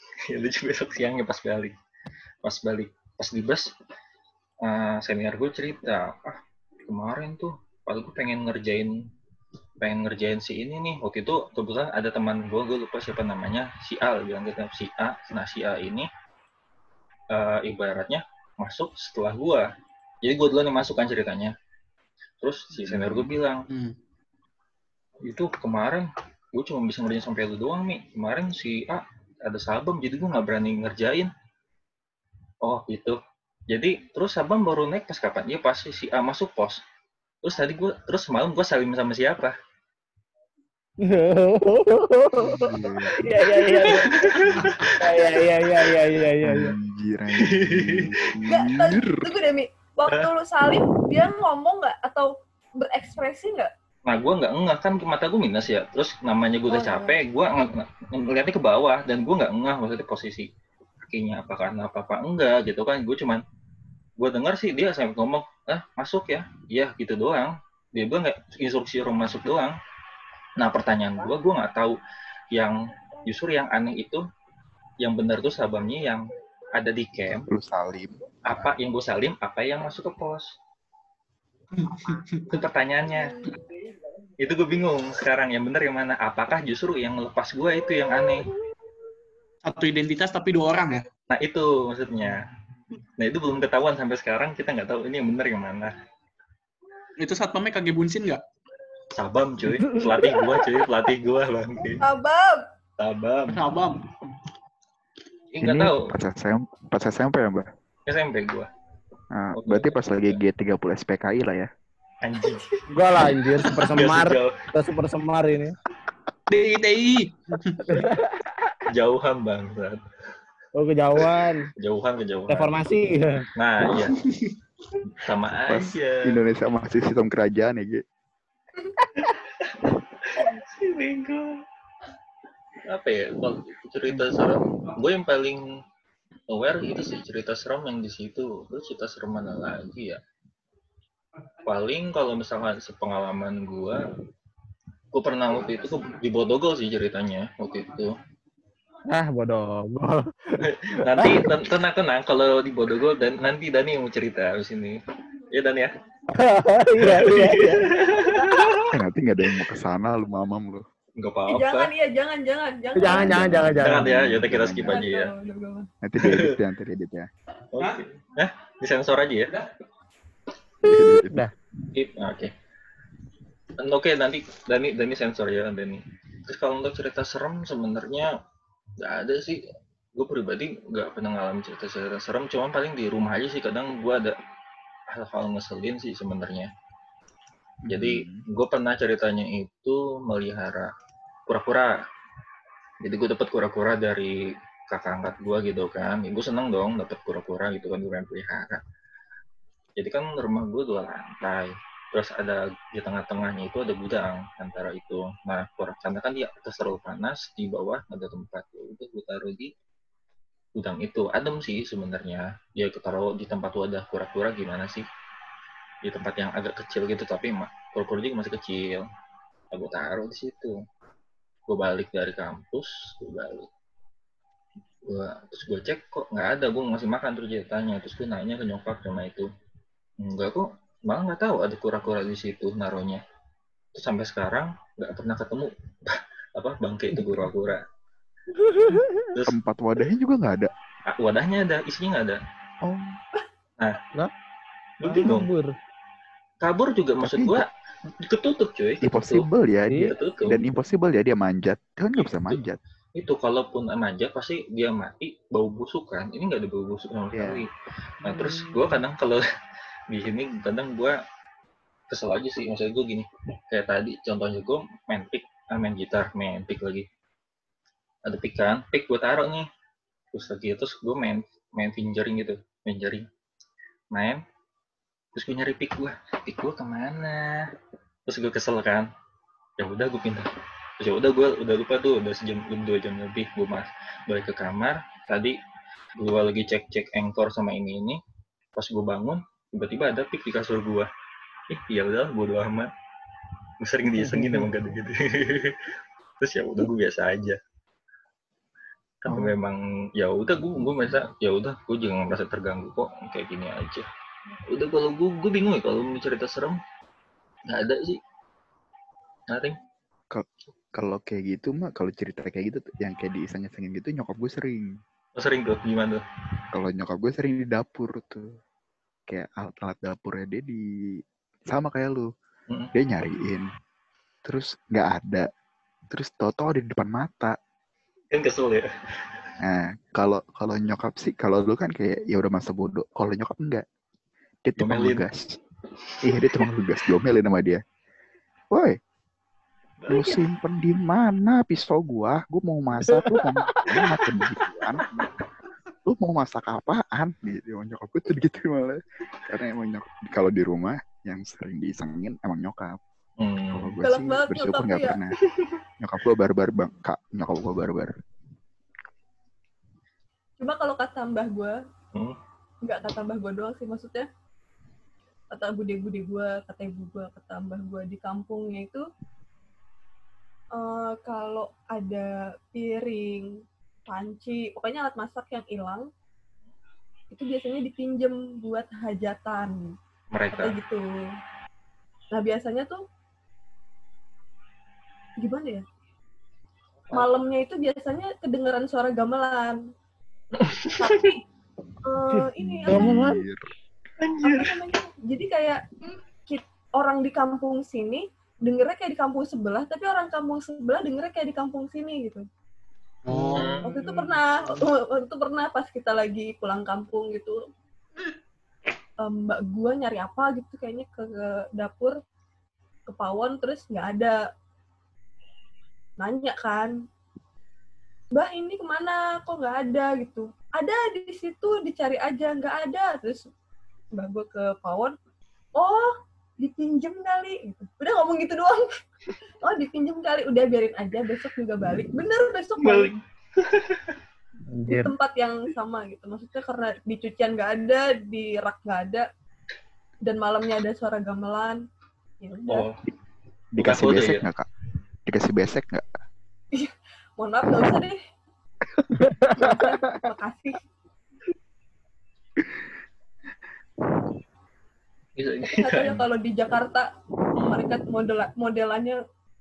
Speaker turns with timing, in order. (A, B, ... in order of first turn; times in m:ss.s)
0:00.3-0:01.7 A
0:02.4-0:03.7 A
0:04.6-0:08.9 A
0:09.8-0:16.1 A
0:17.3-0:19.7 A
0:20.2-0:21.5 A
0:22.4-0:23.7 A
0:22.8-0:23.3 B
0:23.7-0:23.9 C
0:25.2-0:31.3 A
0:32.6-0:36.8 A
0:37.4-0:39.5 A
0:41.0-0:46.8 D
0:42.5-0:43.2 B
0:43.7-0:45.2 A
0:44.4-0:44.8 B
0:46.4-0:49.2 B
0:47.3-0:48.3 A
0:48.5-0:53.7 E
0:54.1-1:00.5 A
0:56.7-0:57.2 E
1:01.1-1:03.4 A
1:04.2-1:09.8 A
1:10.6-1:12.0 A
1:12.5-1:14.2 A
1:15.0-1:16.2 A
1:16.8-1:17.5 A
1:17.4-1:18.7 B
1:18.5-1:20.5 A
1:21.8-1:22.4 C
1:22.5-1:23.4 A
1:24.4-1:28.5 A
1:29.6-1:31.0 C
1:31.3-1:32.5 A
1:33.2-1:35.9 A
1:37.2-1:38.4 C
1:39.1-1:42.0 A
1:39.8-1:40.7 D
1:42.0-1:42.6 E
1:43.0-1:43.8 A
1:43.5-1:44.0 C
1:45.5-1:46.1 A
1:45.6-1:47.7 B
1:48.1-1:48.7 A
1:49.3-1:51.7 B
1:49.5-1:50.3 A
1:52.2-1:54.6 A
1:52.4-1:52.8 E
1:52.9-1:55.8 D
1:56.5-1:58.1 C
1:57.9-1:58.7 D
1:58.9-2:00.0 A
2:00.7-2:01.7 D
2:01.2-2:02.7 A
2:02.5-2:03.5 D
2:03.6-2:04.2 A
2:04.2-2:04.5 C
2:05.1-2:06.4 A
2:05.7-2:08.0 B
2:09.2-2:11.6 A
2:12.8-2:15.6 A
2:16.5-2:20.2 A
2:21.6-2:24.1 A
2:25.1-2:28.1 A
2:29.1-2:30.6 D
2:30.6-2:35.0 A
2:31.2-2:31.5 D
2:35.5-2:35.9 A
2:36.3-2:38.6 D
2:37.0-2:39.0 A
2:38.9-2:40.8 B
2:41.2-2:41.9 A
2:41.5-2:43.7 E
2:43.0-2:44.2 D
2:43.0-2:45.0 B
2:43.8-2:45.3 A
2:44.9-2:45.9 E
2:46.0-2:47.3 B
2:46.2-2:46.5 A
2:47.7-2:49.6 A
2:50.8-2:51.5 B
2:51.0-2:51.5 D
2:51.9-2:52.5 A
2:53.8-2:58.3 A
2:59.0-2:59.6 A
3:00.1-3:04.3 A
3:05.1-3:06.7 A
3:07.8-3:08.4 B
3:07.9-3:10.9 A
3:11.5-3:11.9 A
3:13.0-3:18.8 A
3:20.0-3:29.7 A
3:30.8-3:35.0 A
3:36.0-3:39.0 A
3:39.7-3:40.7 A
3:41.7-3:43.7 A
3:45.1-3:49.5 A
3:50.2-3:53.2 A
3:53.9-3:57.8 A
3:58.5-3:59.3 D
3:59.3-3:59.6 A
3:59.5-4:00.7 B
4:01.1-4:02.4 A
4:02.8-4:03.2 B
4:05.0-4:05.5 A
4:05.0-4:05.7 D
4:06.6-4:09.4 A
4:07.2-4:07.6 B
4:09.0-4:12.8 B
4:09.9-4:10.1 D
4:10.0-4:10.6 A
4:12.2-4:12.6 A
4:13.2-4:17.7 A
4:17.3-4:17.6 B
4:18.2-4:19.4 A
4:18.3-4:18.7 D
4:20.1-4:21.2 A
4:22.1-4:27.0 A
4:28.3-4:29.6 A
4:30.3-4:33.2 A
4:34.1-4:34.4 A
4:35.3-4:37.7 A
4:38.3-4:39.1 A
4:39.8-4:40.5 A
4:41.0-4:45.6 A
4:46.2-4:48.2 A
4:48.8-4:51.1 A
4:51.7-4:52.9 A
4:53.8-4:55.8 A
4:54.0-4:54.7 D
4:56.4-4:57.6 A
4:59.2-5:04.1 A
4:59.3-4:59.5 B
5:04.7-5:06.8 A
5:07.7-5:08.2 A
5:09.5-5:09.8 A
5:10.3-5:14.9 B
5:15.4-5:16.2 A
5:16.7-5:18.5 B
5:19.3-5:20.8 B
5:21.7-5:22.3 B
5:22.9-5:23.7 B
5:24.4-5:25.5 B
5:26.1-5:27.5 B
5:28.3-5:29.5 A
5:29.6-5:33.8 B
5:34.6-5:35.5 B
5:34.8-5:35.2 A
5:36.1-5:36.7 A
5:36.2-5:37.8 B
5:38.7-5:39.0 B
5:40.0-5:40.5 A
5:40.1-5:45.3 B
5:43.1-5:44.3 D
5:46.0-5:53.0 B
5:53.4-5:53.9 A
5:53.7-5:55.4 B
5:54.0-5:55.2 E
5:56.0-5:58.1 B
6:00.6-6:01.8 E
6:02.8-6:04.3 E
6:05.5-6:09.0 E
6:10.7-6:13.5 E
6:14.1-6:16.1 E
6:17.3-6:19.9 E
6:20.3-6:20.8 A
6:20.6-6:21.1 E
6:22.3-6:23.0 E
6:25.4-6:25.8 E
6:27.1-6:29.8 E
6:30.6-6:31.4 A
6:30.8-6:31.4 E
6:32.0-6:33.2 E
6:32.3-6:33.4 D
6:32.6-6:33.6 B
6:34.2-6:34.9 A
6:34.4-6:35.8 E
6:36.5-6:42.4 E
6:43.3-6:43.8 C
6:43.5-6:44.2 A
6:43.8-6:47.6 E
6:49.2-6:52.1 E
6:53.1-6:54.4 E
6:56.2-6:56.9 E
6:58.3-7:03.4 E
7:04.1-7:05.1 E
7:05.8-7:08.9 E
7:09.6-7:13.2 E
7:12.8-7:14.2 A
7:14.7-7:15.1 D
7:14.9-7:19.2 E
7:20.2-7:21.8 E
7:22.4-7:22.9 E
7:22.7-7:22.9 A
7:23.8-7:24.7 B
7:23.8-7:24.4 A
7:25.3-7:26.1 B
7:26.7-7:28.2 E
7:29.1-7:29.8 D
7:29.4-7:30.1 B
7:29.6-7:30.8 E
7:32.6-7:32.9 B
7:34.0-7:34.3 B
7:35.4-7:36.2 A
7:35.7-7:39.2 E
7:37.6-7:37.9 A